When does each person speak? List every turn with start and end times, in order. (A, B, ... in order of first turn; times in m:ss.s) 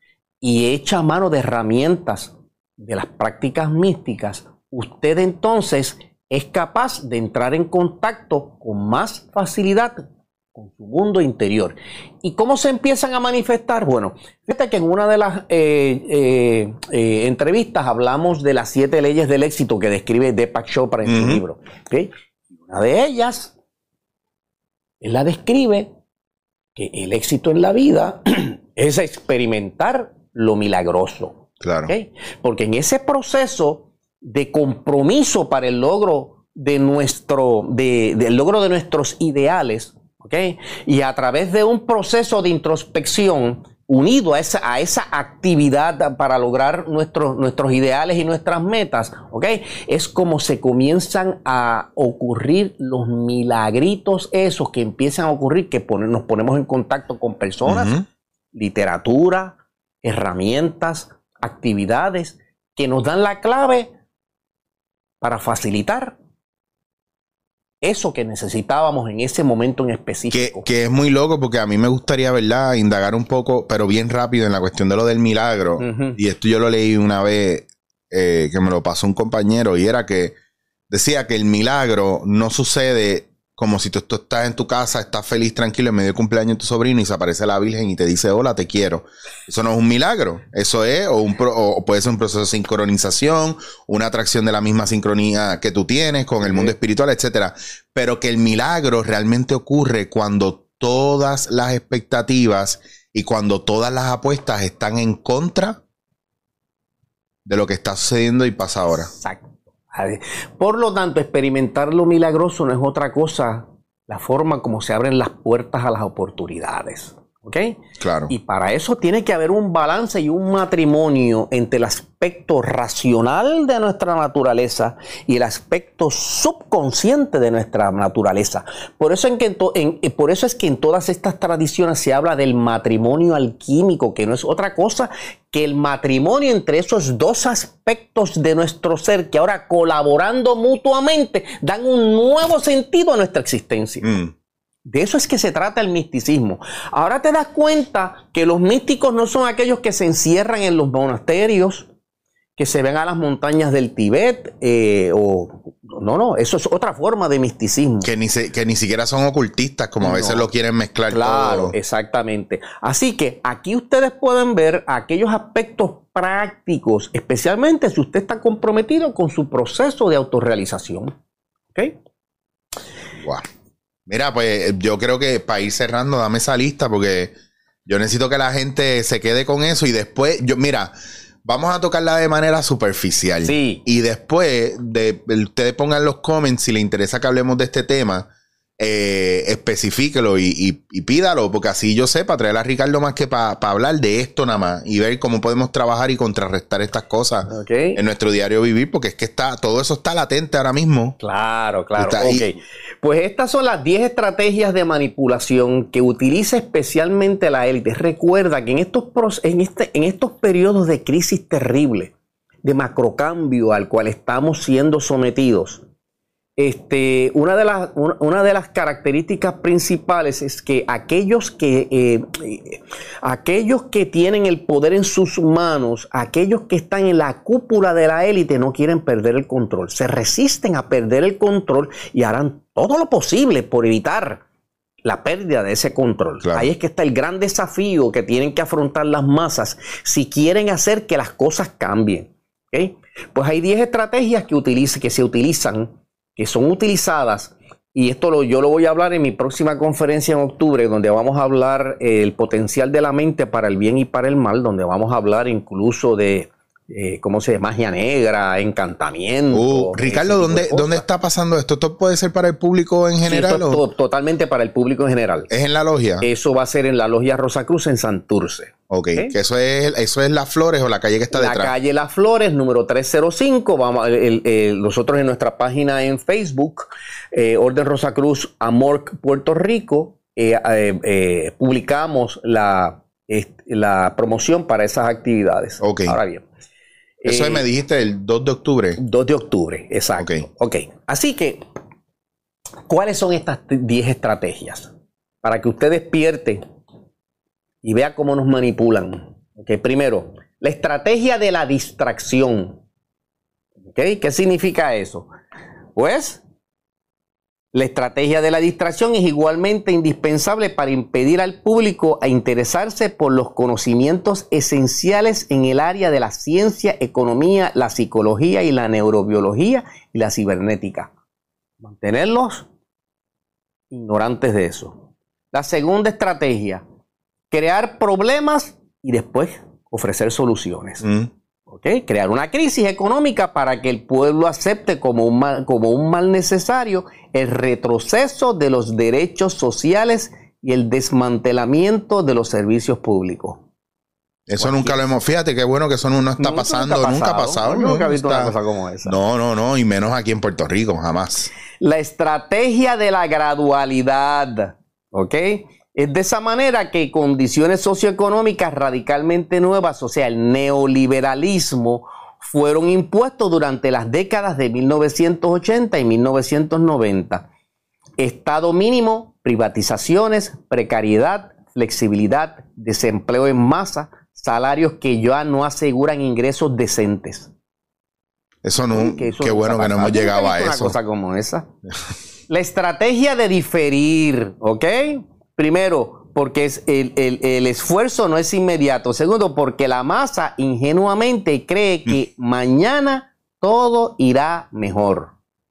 0:00.4-0:10.0 A
0:10.5-0:22.1 A
0:21.0-0:21.4 B
0:22.6-0:23.5 A
0:25.0-0:25.9 A
0:26.8-0:57.9 A
0:31.6-0:31.9 B
0:57.6-0:58.0 B
0:58.5-1:03.9 A
1:05.2-1:06.2 A
1:07.8-1:10.6 A
1:10.3-1:20.4 B
1:15.8-1:16.2 A
1:20.9-1:45.8 B
1:47.4-1:49.1 B
1:48.9-2:24.1 A
1:58.0-1:58.3 B
2:24.0-2:24.3 B
2:24.8-2:31.9 A
2:32.6-2:38.1 A
2:38.0-2:41.7 B
2:40.0-2:40.5 A
2:41.1-2:51.1 A
2:53.2-2:53.5 B
2:54.1-2:57.3 B
2:57.8-3:00.9 B
3:01.4-3:21.2 B
3:03.4-3:03.8 A
3:17.5-3:18.0 A
3:21.2-3:32.1 A
3:22.0-3:22.5 B
3:32.6-3:35.8 A
3:36.6-3:54.4 A
3:55.0-4:21.0 A
3:56.4-3:56.7 B
4:19.5-4:23.8 B
4:23.2-4:25.5 A
4:25.5-4:26.2 B
4:26.2-4:29.3 A
4:28.9-4:31.7 B
4:31.3-4:46.4 A
4:45.8-4:46.2 B
4:47.2-4:47.6 A
4:47.2-4:49.0 B
4:49.0-4:51.6 A
4:50.2-4:50.4 B
4:52.9-4:54.9 A
4:55.4-4:56.6 A
4:57.8-5:02.8 A
5:03.9-5:05.3 A
5:05.9-5:06.4 A
5:07.7-5:21.1 A
5:21.8-5:22.7 A
5:23.9-5:25.0 A
5:25.5-5:26.8 A
5:27.5-5:31.1 A
5:31.0-5:31.3 B
5:31.7-5:43.6 A
5:44.5-5:48.5 B
5:44.6-5:45.0 A
5:46.4-5:49.2 A
5:49.0-5:51.5 B
5:51.8-6:07.5 A
6:08.2-6:17.5 A
6:18.6-6:20.9 B
6:18.9-6:21.7 A
6:22.5-6:35.3 A